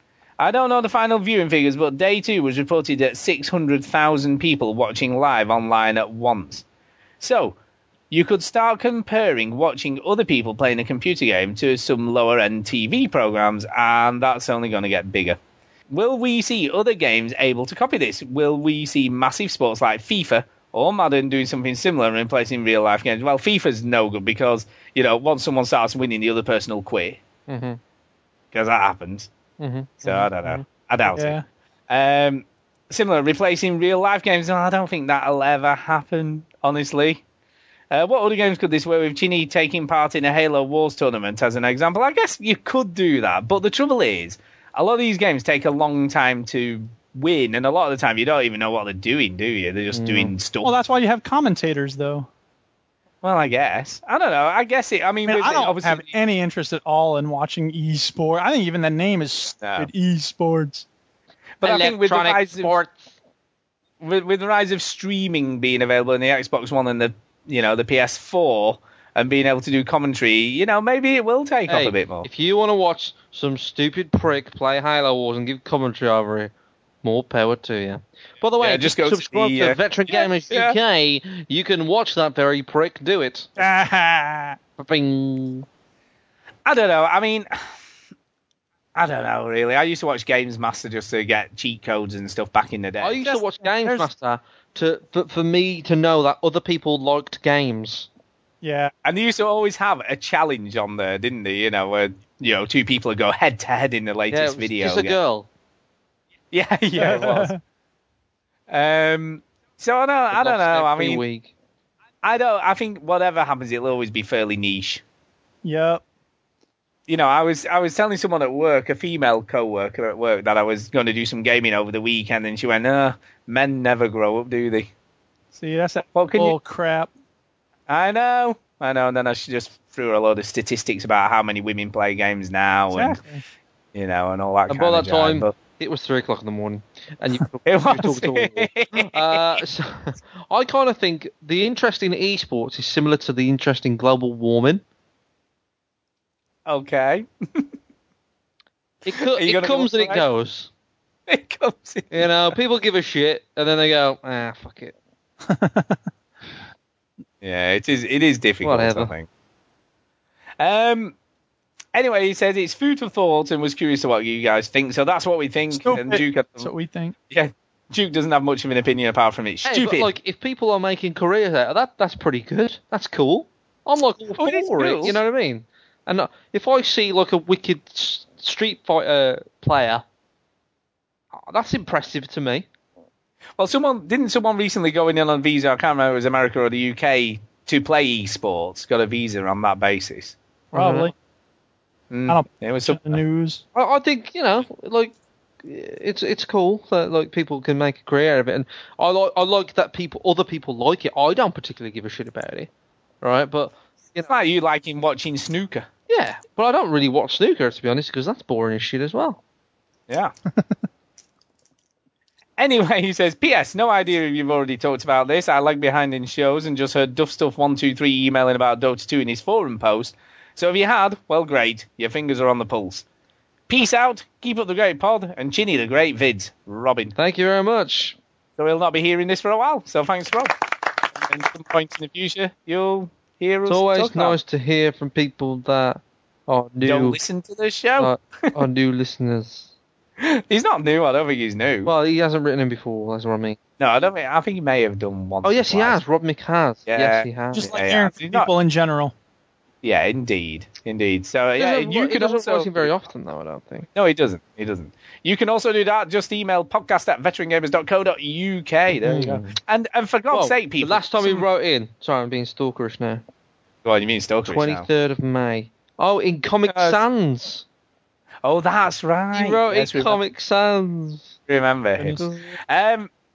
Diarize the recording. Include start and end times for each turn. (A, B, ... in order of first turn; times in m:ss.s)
0:00.4-0:06.6 A
0:07.2-0:07.6 A
0:08.1-0:15.4 A
0:15.9-0:27.2 A
0:27.5-0:27.8 B
0:28.5-0:29.3 A
0:29.6-0:30.3 B
0:30.0-0:37.2 A
0:31.1-0:31.4 C
0:37.9-0:50.7 A
0:49.9-0:50.3 B
0:50.6-0:52.3 C
0:53.2-0:56.1 A
0:55.3-1:00.8 C
0:59.6-0:59.9 A
1:01.6-1:02.8 A
1:01.6-1:03.1 B
1:04.0-1:12.3 A
1:11.7-1:16.5 B
1:17.0-1:23.5 B
1:18.6-1:20.8 A
1:23.6-1:24.6 C
1:24.8-1:25.6 B
1:26.6-1:27.5 A
1:28.9-1:33.2 A
1:33.0-1:38.1 B
1:33.2-1:34.1 C
1:38.6-1:38.9 C
1:39.0-1:45.2 A
1:44.3-1:45.5 B
1:46.5-1:47.5 A
1:47.0-1:47.6 C
1:48.7-1:51.2 A
1:50.3-1:51.5 B
1:52.2-1:55.0 A
1:55.6-1:56.0 C
1:57.1-2:04.9 A
2:05.5-2:07.1 C
2:06.1-2:06.6 A
2:07.9-2:13.2 A
2:12.9-2:13.4 C
2:13.9-2:15.6 A
2:14.7-2:24.8 B
2:17.6-2:19.6 A
2:26.6-2:27.6 A
2:29.0-2:30.7 B
2:29.1-2:30.3 A
2:31.3-2:32.4 A
2:32.1-2:34.9 B
2:35.5-2:36.0 C
2:37.4-2:39.3 A
2:38.6-2:39.1 B
2:40.6-2:41.1 A
2:41.9-2:46.7 A
2:45.7-2:47.1 C
2:47.3-2:50.1 A
2:49.6-3:00.0 B
2:54.4-2:55.2 A
3:01.3-3:02.6 B
3:03.6-3:10.4 A
3:10.7-3:11.1 B
3:10.7-3:11.1 C
3:12.1-3:13.2 A
3:12.3-3:13.6 C
3:13.7-3:22.7 B
3:23.2-3:24.3 B
3:24.3-3:25.9 A
3:26.1-3:29.4 B
3:32.6-3:43.0 A
3:43.7-3:47.1 A
3:47.2-3:48.2 B
3:48.6-3:50.5 A
3:51.2-3:54.4 A
3:53.7-3:57.2 B
3:56.8-3:58.5 A
3:58.0-3:59.7 B
4:00.2-4:01.9 A
4:01.8-4:03.6 B
4:03.8-4:06.0 A
4:05.4-4:07.7 B
4:06.9-4:08.5 A
4:07.5-4:09.1 C
4:09.8-4:12.9 A
4:11.6-4:13.9 B
4:13.9-4:21.4 A
4:19.0-4:19.4 B
4:20.3-4:23.2 B
4:23.8-4:24.8 A
4:24.4-4:27.6 B
4:26.7-4:27.0 A
4:28.4-4:30.2 A
4:29.3-4:31.3 B
4:31.5-4:33.1 A
4:32.0-4:32.2 C
4:32.2-4:32.5 B